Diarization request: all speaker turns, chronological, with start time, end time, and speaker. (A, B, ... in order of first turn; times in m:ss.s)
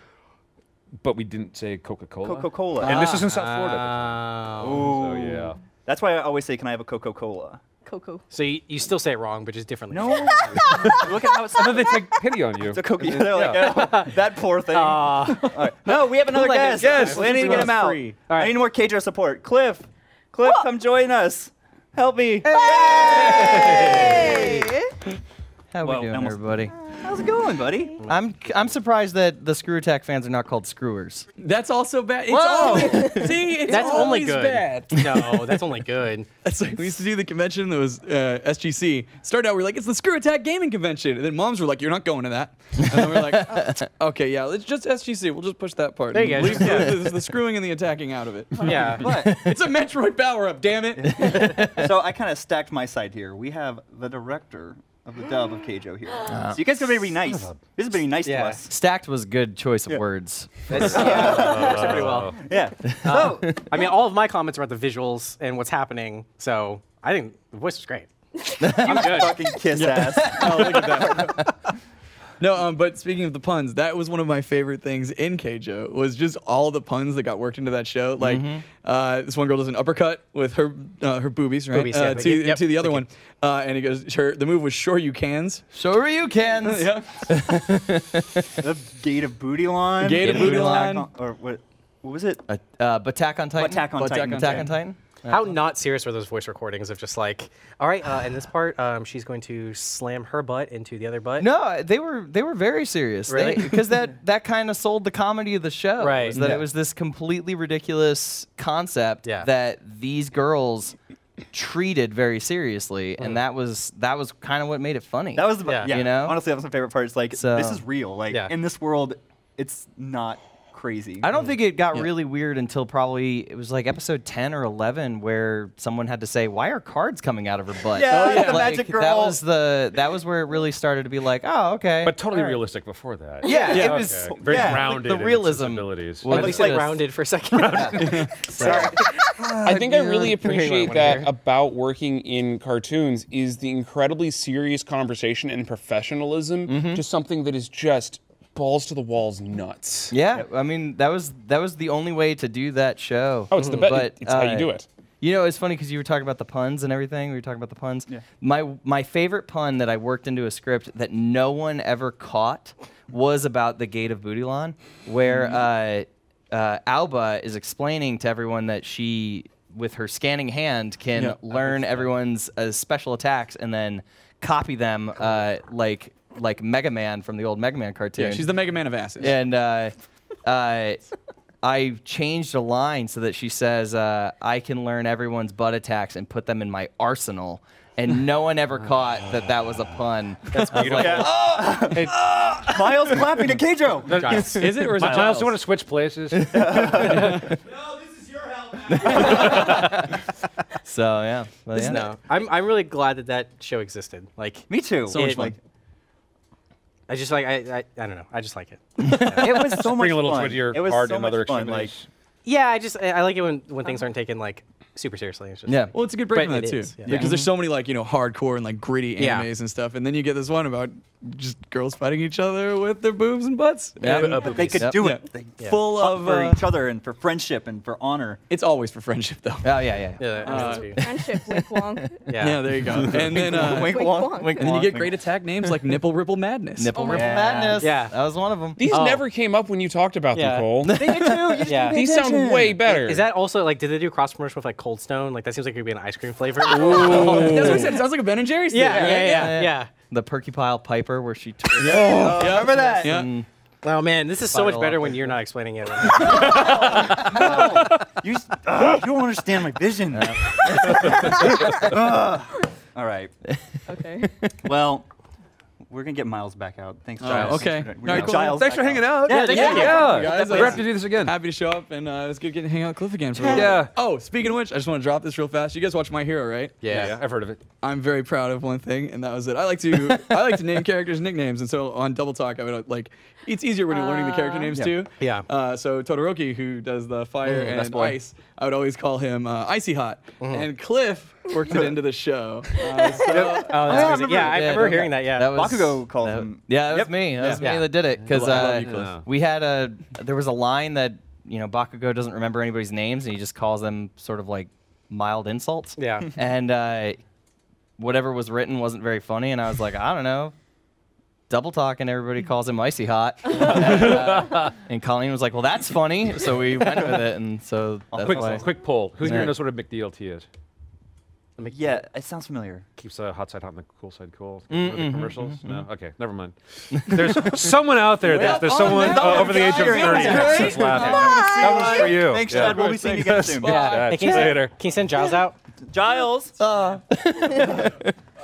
0:01.0-0:05.6 A
0:02.2-0:03.2 B
0:02.8-0:04.9 C
0:04.6-0:07.6 B
0:07.8-0:08.2 D
0:08.3-0:10.6 C
0:09.9-0:12.1 B
0:10.2-0:12.2 D
0:11.0-0:14.0 A
0:12.6-0:24.7 B
0:13.5-0:14.1 C
0:14.7-0:18.6 C
0:16.8-0:17.8 E
0:17.0-0:17.4 A
0:22.5-0:24.9 D
0:23.3-0:24.2 C
0:23.4-0:23.9 E
0:25.7-0:26.7 F
0:25.8-0:28.0 B
0:28.0-0:31.3 F
0:31.4-0:35.7 E
0:32.3-0:33.3 B
0:32.8-0:33.8 D
0:33.7-0:36.3 C
0:36.4-0:51.5 E
0:42.9-0:43.8 F
0:46.1-0:47.0 C
0:48.6-0:49.0 C
0:48.8-0:49.4 B
0:49.2-0:49.6 F
0:51.0-0:58.7 B
0:51.1-0:51.9 F
0:56.3-0:56.6 F
0:57.3-0:57.6 A
0:58.2-0:58.6 C
0:58.7-1:01.4 F
1:00.7-1:02.4 C
1:00.7-1:03.7 B
1:00.7-1:02.5 A
1:03.0-1:03.4 F
1:03.0-1:08.1 C
1:08.6-1:09.3 F
1:08.7-1:11.3 B
1:08.8-1:09.3 C
1:09.7-1:11.4 E
1:10.2-1:11.4 F
1:12.4-1:25.6 E
1:18.2-1:18.6 F
1:21.7-1:23.0 C
1:25.7-1:28.6 F
1:26.6-1:27.3 E
1:28.6-1:32.4 B
1:30.0-1:31.1 E
1:30.2-1:31.0 F
1:32.5-1:35.5 F
1:33.6-1:34.7 B
1:33.9-1:34.8 E
1:35.3-1:41.5 C
1:41.4-1:51.0 F
1:43.3-1:43.8 C
1:46.0-1:46.4 C
1:46.4-1:46.6 B
1:51.5-1:56.4 F
1:55.3-2:01.3 B
1:55.6-1:55.9 C
1:57.3-1:57.8 F
2:01.2-2:12.2 F
2:01.4-2:02.0 C
2:07.9-2:09.4 B
2:08.0-2:08.8 E
2:12.0-2:16.8 A
2:13.4-2:17.0 F
2:13.4-2:13.9 C
2:13.7-2:14.9 B
2:16.3-2:21.3 C
2:16.3-2:16.8 B
2:17.5-2:18.3 A
2:18.0-2:18.3 E
2:18.5-2:19.0 F
2:18.6-2:18.9 B
2:19.6-2:30.1 G
2:26.6-2:27.0 F
2:30.1-2:58.5 F
2:33.5-2:34.8 G
2:33.5-2:33.8 C
2:45.3-2:45.6 B
2:51.1-2:51.7 E
2:58.2-2:59.4 E
2:59.2-3:01.0 F
3:01.6-3:11.4 F
3:10.5-3:11.0 C
3:10.7-3:12.3 A
3:10.7-3:15.5 B
3:14.1-3:15.5 C
3:14.1-3:17.4 A
3:16.5-3:17.6 F
3:16.5-3:17.5 B
3:18.9-3:20.2 F
3:19.2-3:20.0 A
3:20.8-3:22.1 F
3:21.7-3:25.6 C
3:24.7-3:25.6 B
3:27.1-3:29.4 C
3:29.0-3:29.8 F
3:29.4-3:31.9 B
3:29.8-3:32.1 A
3:32.4-3:37.2 C
3:35.6-3:35.9 F
3:35.9-3:46.6 E
3:37.1-3:37.5 F
3:39.2-3:39.5 C
3:44.0-3:45.1 F
3:44.1-3:48.4 B
3:44.2-3:44.8 A
3:44.3-3:44.7 D
3:48.5-3:49.8 E
3:49.6-3:50.5 F
3:50.2-3:51.0 C
3:50.4-3:51.1 E
3:50.4-3:52.4 D
3:51.0-3:52.0 F
3:52.3-3:52.6 C
3:52.4-3:57.1 E
3:53.1-3:55.2 B
3:53.6-3:54.7 D
3:54.4-3:54.9 F
3:56.8-3:58.9 F
3:56.9-3:57.7 D
3:57.0-3:57.8 B
3:57.8-3:58.1 C
3:58.8-4:01.0 G
3:58.9-3:59.2 C
4:00.3-4:00.9 C
4:00.8-4:01.8 F
4:00.9-4:02.8 B
4:01.6-4:02.0 C
4:01.9-4:03.2 G
4:02.8-4:08.0 C
4:06.7-4:09.6 E
4:07.0-4:07.9 F
4:08.7-4:09.9 C
4:08.8-4:13.4 F
4:11.8-4:13.3 E
4:11.9-4:13.1 B
4:13.8-4:16.7 C
4:14.5-4:15.3 F
4:16.3-4:23.3 B
4:17.3-4:17.6 C
4:20.1-4:22.2 F
4:23.9-4:24.3 D
4:24.2-4:24.5 F
4:24.6-4:25.1 B
4:25.9-4:30.8 B
4:27.2-4:37.2 E
4:27.2-4:31.3 A
4:29.3-4:30.2 C
4:33.4-4:33.9 A
4:36.8-4:37.6 A
4:37.8-4:54.3 E
4:43.9-4:44.7 D
4:44.7-4:45.0 B
4:45.2-4:45.4 C
4:50.4-4:50.7 C
4:52.8-4:53.7 D
4:53.0-4:57.2 B
4:53.3-4:55.6 C
4:53.9-5:07.2 F
4:57.4-4:59.1 E
4:57.6-4:57.9 C
4:58.2-4:59.2 A
5:06.0-5:06.3 C
5:08.0-5:10.5 F
5:11.5-5:18.7 F
5:13.6-5:14.1 B
5:13.7-5:14.7 A
5:18.1-5:18.7 B
5:18.2-5:20.4 A
5:19.2-5:19.6 F
5:21.6-5:22.0 C
5:21.7-5:22.8 B
5:23.0-5:34.7 A
5:24.7-5:25.8 F
5:27.0-5:27.6 F
5:28.2-5:31.2 E
5:28.3-5:34.0 B
5:30.2-5:30.6 C
5:31.0-5:32.1 D
5:32.5-5:34.5 E
5:33.6-5:35.6 C
5:35.9-5:36.6 B
5:36.6-5:38.1 F